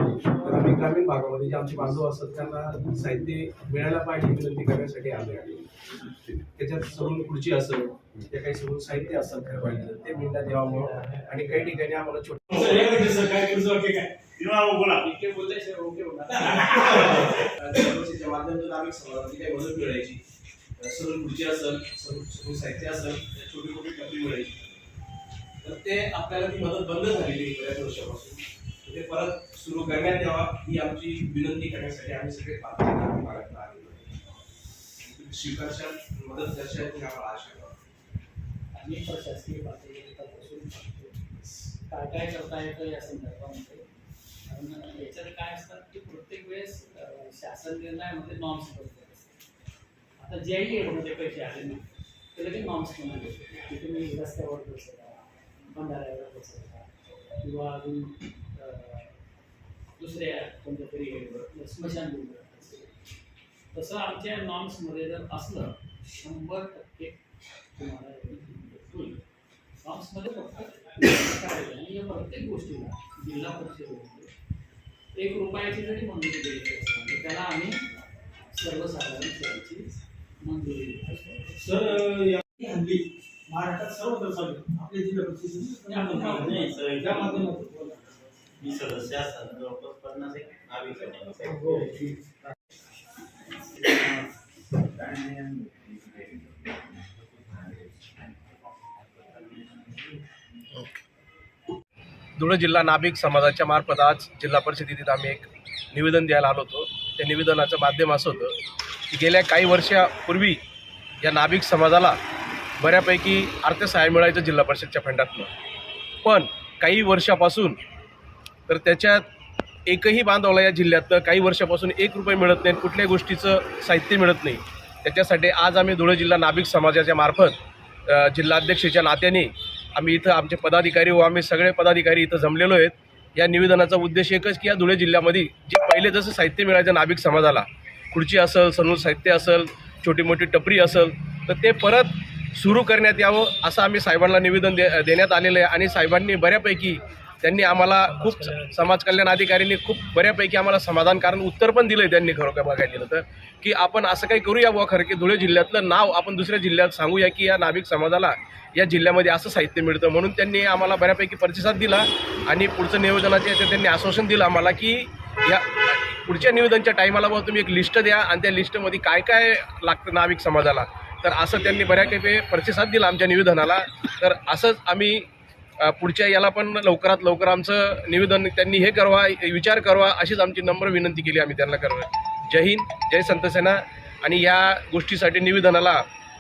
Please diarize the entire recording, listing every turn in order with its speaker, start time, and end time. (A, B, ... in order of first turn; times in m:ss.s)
0:00.4-0:05.6 A
0:06.5-0:12.9 A
0:10.8-0:11.2 B
0:12.6-0:14.0 B
0:12.7-0:14.0 C
0:14.4-0:15.1 D
0:15.0-0:17.5 B
0:17.0-0:20.2 A
0:20.8-0:24.8 A
0:25.6-0:34.2 A
0:35.0-0:37.8 A
0:38.7-0:43.9 B
0:44.4-0:49.4 B
0:50.2-0:59.2 B
1:00.0-1:02.9 B
1:03.7-1:07.2 B
1:07.8-1:09.2 B
1:09.8-1:14.3 B
1:15.2-1:17.8 B
1:18.5-1:21.9 B
1:21.5-1:27.6 C
1:25.8-1:28.0 B
1:26.3-1:27.6 D
1:28.6-1:31.9 D
1:31.6-1:32.1 C
1:33.7-1:34.2 D
1:34.8-1:37.9 D
1:39.2-1:40.2 D
1:42.4-1:48.6 A
1:49.1-1:50.6 A
1:51.2-1:52.2 A
1:52.8-1:55.5 A
1:56.2-1:57.8 A
1:58.7-1:59.3 A
1:59.8-3:06.0 A